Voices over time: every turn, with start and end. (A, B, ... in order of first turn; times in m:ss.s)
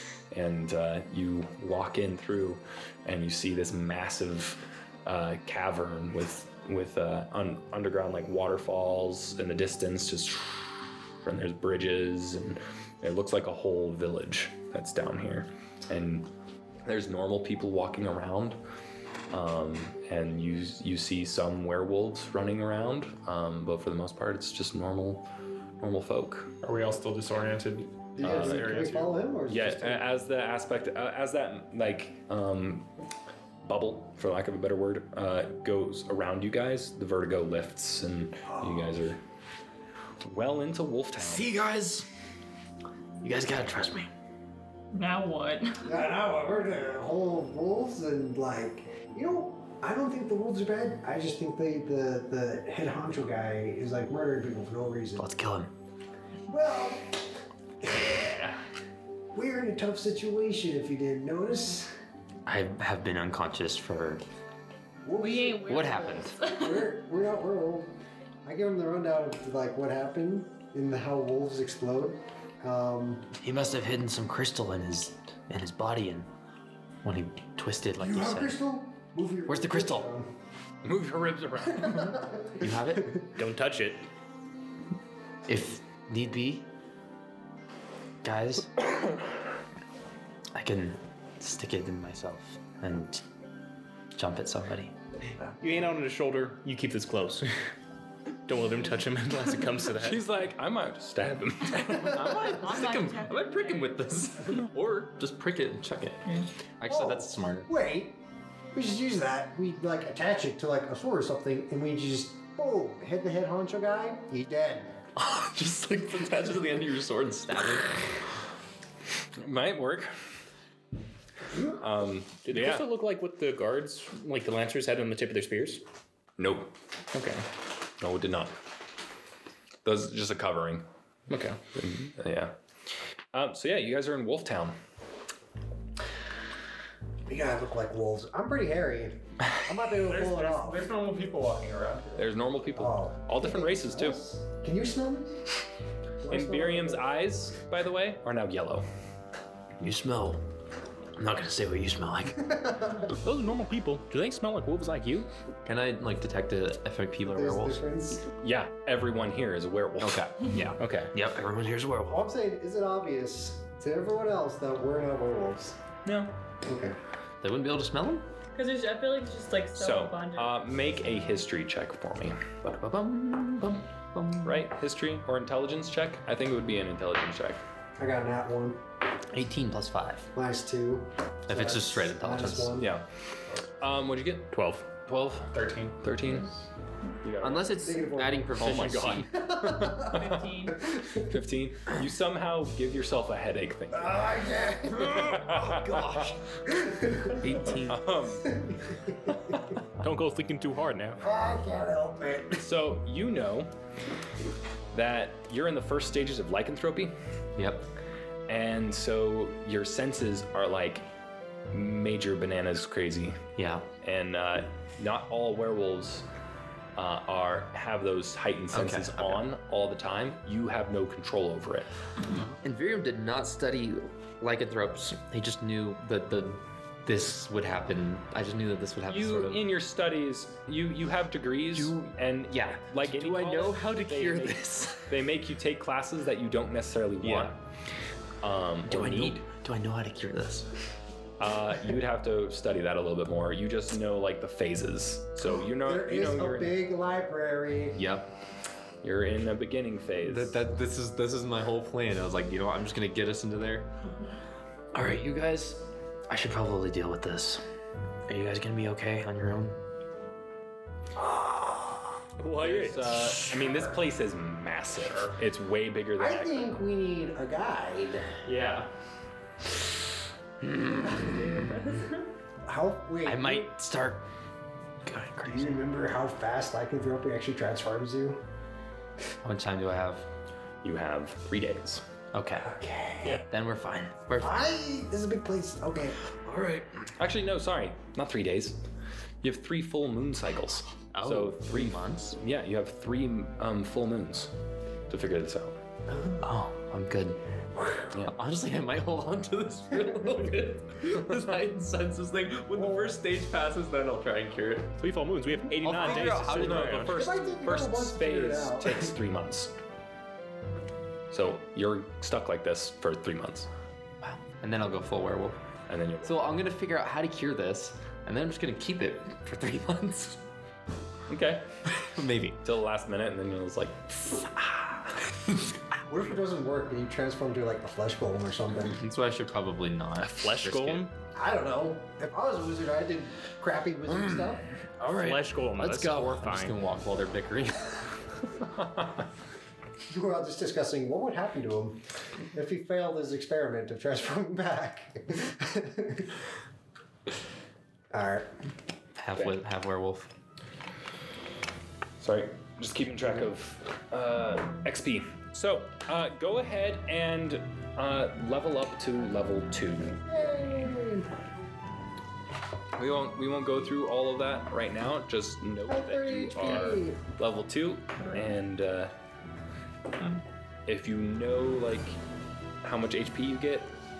0:00.3-0:16.3 A
0:16.8-0:18.6 A
0:19.3-0:25.2 A
0:25.8-0:26.5 A
0:26.6-0:29.3 B
0:28.1-0:30.0 C
0:28.2-0:28.9 A
0:29.5-0:32.9 A
0:33.6-0:39.2 A
0:38.4-0:39.0 C
0:40.2-0:41.5 A
0:41.2-0:42.0 D
0:43.2-0:44.1 D
0:44.9-0:46.0 E
0:45.8-0:55.2 C
0:55.2-0:55.7 D
0:56.5-0:57.2 C
0:57.8-0:58.4 C
0:59.3-1:01.9 C
1:02.4-1:04.2 D
1:05.0-1:05.7 C
1:05.2-1:06.9 E
1:05.6-1:06.5 D
1:06.4-1:07.9 C
1:08.4-1:13.3 C
1:13.4-1:16.3 D
1:17.0-1:18.6 D
1:18.0-1:20.3 C
1:19.5-1:20.1 D
1:20.8-1:22.2 A
1:21.8-1:23.1 C
1:22.6-1:23.3 D
1:23.3-1:24.0 F
1:25.5-1:26.7 D
1:28.2-1:28.7 D
1:30.5-1:33.2 D
1:34.1-1:34.9 D
1:35.6-1:37.5 F
1:38.5-1:40.2 F
1:40.0-1:42.3 A
1:41.9-1:46.3 D
1:42.3-1:44.0 E
1:46.8-1:47.7 D
1:46.9-1:48.2 C
1:48.7-1:55.0 C
1:55.2-1:57.9 D
1:59.4-2:00.1 A
2:01.7-2:02.9 A
2:02.4-2:05.8 F
2:06.4-2:06.7 A
2:07.1-2:07.4 F
2:08.0-2:08.5 A
2:09.8-2:10.9 A
2:11.3-2:11.6 F
2:11.7-2:12.6 A
2:13.3-2:14.8 A
2:17.2-2:20.9 C
2:20.0-2:22.2 B
2:22.2-2:24.2 A
2:22.8-2:25.4 C
2:26.2-2:27.1 C
2:26.2-2:28.8 A
2:29.8-2:30.4 D
2:31.2-2:32.5 D
2:32.4-2:33.2 C
2:33.1-2:35.3 F
2:35.6-2:37.8 D
2:37.2-2:38.2 C
2:38.4-2:40.3 A
2:40.0-2:42.3 D
2:40.5-2:41.1 F
2:42.1-2:45.8 C
2:46.0-2:46.4 A
2:46.6-2:47.0 C
2:47.4-2:48.2 D
2:48.5-2:50.6 E
2:49.8-2:52.4 A
2:52.6-2:54.7 D
2:54.4-2:57.6 A
2:58.0-2:58.8 C
2:59.3-3:00.3 D
3:00.3-3:02.9 C
3:01.5-3:02.9 D
3:02.8-3:03.1 A
3:03.8-3:06.5 A
3:04.5-3:04.8 F
3:05.5-3:06.0 B
3:07.2-3:07.9 A
3:07.4-3:09.4 D
3:07.8-3:08.4 C
3:08.6-3:10.5 A
3:09.1-3:11.2 C
3:10.0-3:10.8 E
3:11.1-3:14.4 A
3:13.9-3:15.2 C
3:14.9-3:16.4 D
3:15.0-3:16.4 A
3:16.7-3:17.4 C
3:17.4-3:18.1 D
3:17.8-3:18.5 A
3:18.5-3:19.5 C
3:19.5-3:19.8 A
3:20.0-3:21.2 F
3:21.2-3:22.6 C
3:22.6-3:23.7 A
3:24.9-3:27.1 A
3:27.6-3:27.9 D
3:28.5-3:31.0 A
3:31.7-3:33.4 A
3:33.6-3:33.9 D
3:34.0-3:36.3 A
3:37.0-3:41.9 A
3:38.7-3:39.5 D
3:42.6-3:49.7 D
3:49.1-3:57.6 A
3:51.7-3:55.2 D
3:57.2-3:57.5 D
3:58.4-3:59.4 A
3:58.8-4:00.7 D
4:01.4-4:06.8 A
4:05.7-4:08.0 C
4:07.9-4:08.3 D
4:09.0-4:10.5 A
4:10.2-4:13.9 D
4:14.9-4:17.6 D
4:18.3-4:19.8 D
4:21.2-4:22.0 C
4:22.4-4:23.3 F
4:22.6-4:26.8 A
4:26.2-4:28.3 C
4:28.4-4:28.9 B
4:30.6-4:31.6 D
4:31.0-4:32.0 C
4:32.6-4:33.7 C
4:33.2-4:34.2 D
4:35.0-4:35.8 D
4:35.4-4:38.4 C
4:39.4-4:40.3 D
4:40.8-4:42.0 A
4:42.3-4:42.8 D
4:42.6-4:43.4 C
4:43.3-4:44.6 D
4:44.4-4:46.2 C
4:47.2-4:48.8 A
4:49.4-4:54.5 A
4:51.1-4:52.4 D
4:55.1-4:55.8 A
4:56.2-4:56.4 C
4:56.4-4:57.4 D
4:58.2-5:05.0 D
5:02.7-5:03.2 C
5:05.0-5:07.3 F
5:05.7-5:07.3 D
5:06.0-5:09.7 A
5:07.1-5:09.1 C
5:11.3-5:13.7 A
5:14.2-5:15.6 D
5:15.9-5:16.7 A
5:16.2-5:20.4 D
5:21.3-5:21.6 A
5:22.0-5:22.6 D
5:22.6-5:25.4 A
5:26.1-5:29.0 C
5:28.9-5:31.1 D
5:30.2-5:31.1 F
5:31.3-5:34.7 C
5:34.1-5:38.1 D
5:35.0-5:36.7 F
5:40.1-5:42.0 C
5:42.5-5:46.3 C
5:48.1-5:48.5 C
5:49.2-5:50.3 D
5:52.2-6:00.2 A
6:00.3-6:01.3 C
6:03.0-6:09.1 A
6:05.9-6:07.2 C
6:10.8-6:12.2 A
6:12.8-6:13.9 A